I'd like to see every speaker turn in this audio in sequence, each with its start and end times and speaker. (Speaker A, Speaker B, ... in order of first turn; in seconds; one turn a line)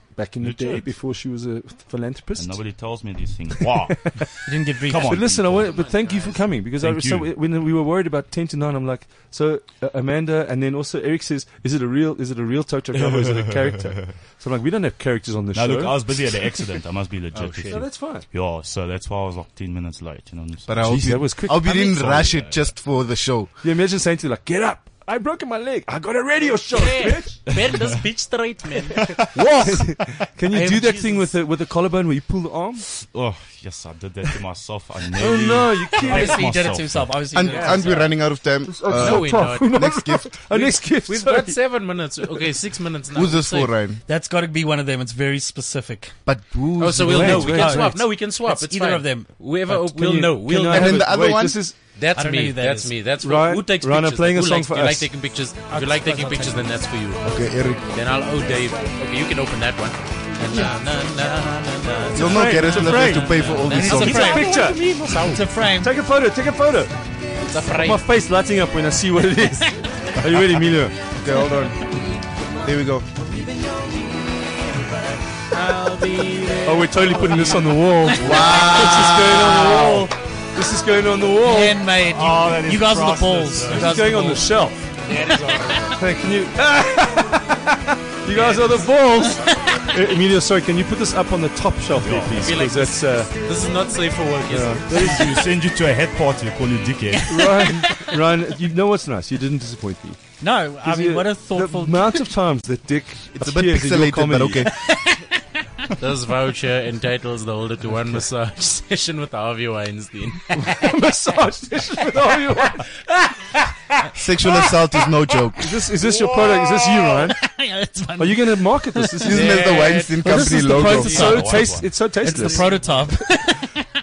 Speaker A: 0.1-2.7
Speaker B: 0.4-0.9
Speaker B: 2.4-5.8
Speaker A: 3.6-4.2
Speaker C: 4.5-5.5
Speaker A: 5.0-16.1
Speaker D: 5.6-6.5
Speaker B: 6.8-7.3
Speaker B: 15.5-22.7
Speaker D: 17.3-17.8
Speaker A: 17.6-18.3
Speaker E: 20.6-23.6
Speaker A: 20.8-21.8
Speaker A: 23.6-27.4
Speaker D: 26.7-29.1
Speaker B: 27.5-27.8
Speaker B: 29.0-29.3
Speaker A: 29.3-32.9
Speaker C: 30.5-31.3
Speaker B: 33.0-37.2
Speaker A: 35.1-36.5
Speaker C: 36.0-38.2
Speaker E: 37.3-40.4
Speaker D: 37.4-38.1
Speaker A: 38.6-42.3
Speaker D: 38.9-39.9
Speaker D: 40.5-43.7
Speaker E: 43.1-44.0
Speaker C: 44.0-46.2
Speaker E: 46.2-47.6
Speaker D: 46.8-51.1
Speaker A: 47.0-48.0
Speaker C: 47.4-49.5
Speaker A: 49.7-51.8
Speaker E: 50.7-51.7
Speaker D: 51.9-65.5
Speaker C: 52.1-53.0
Speaker A: 53.2-55.1
Speaker C: 55.7-56.8
Speaker E: 57.2-58.0
Speaker E: 62.1-64.4
Speaker A: 62.1-64.9
Speaker C: 63.6-65.9
Speaker A: 65.8-67.0
Speaker D: 67.4-68.0
Speaker A: 67.7-71.0
Speaker E: 71.1-73.2
Speaker D: 75.5-78.8
Speaker A: 76.6-81.8
Speaker E: 78.2-79.8
Speaker C: 78.7-80.1
Speaker C: 81.4-84.6
Speaker B: 81.9-83.9
Speaker A: 83.7-84.8
Speaker D: 85.0-86.0
Speaker A: 85.9-93.3
Speaker D: 88.3-88.7
Speaker B: 92.0-92.5
Speaker D: 92.3-95.5
Speaker A: 94.5-95.5
Speaker B: 94.9-97.6
Speaker A: 97.3-100.2
Speaker C: 100.4-102.3
Speaker A: 100.8-104.7
Speaker E: 103.3-104.8
Speaker C: 104.9-105.2
Speaker D: 106.0-110.9
Speaker A: 110.5-112.9
Speaker D: 113.1-114.7
Speaker E: 114.1-115.7
Speaker A: 115.6-117.4
Speaker D: 116.0-117.0
Speaker C: 117.2-119.2
Speaker A: 118.2-119.8
Speaker E: 119.2-121.4
Speaker D: 119.3-121.3
Speaker C: 120.2-123.9
Speaker A: 120.6-123.5
Speaker B: 121.0-122.1
Speaker D: 122.4-123.0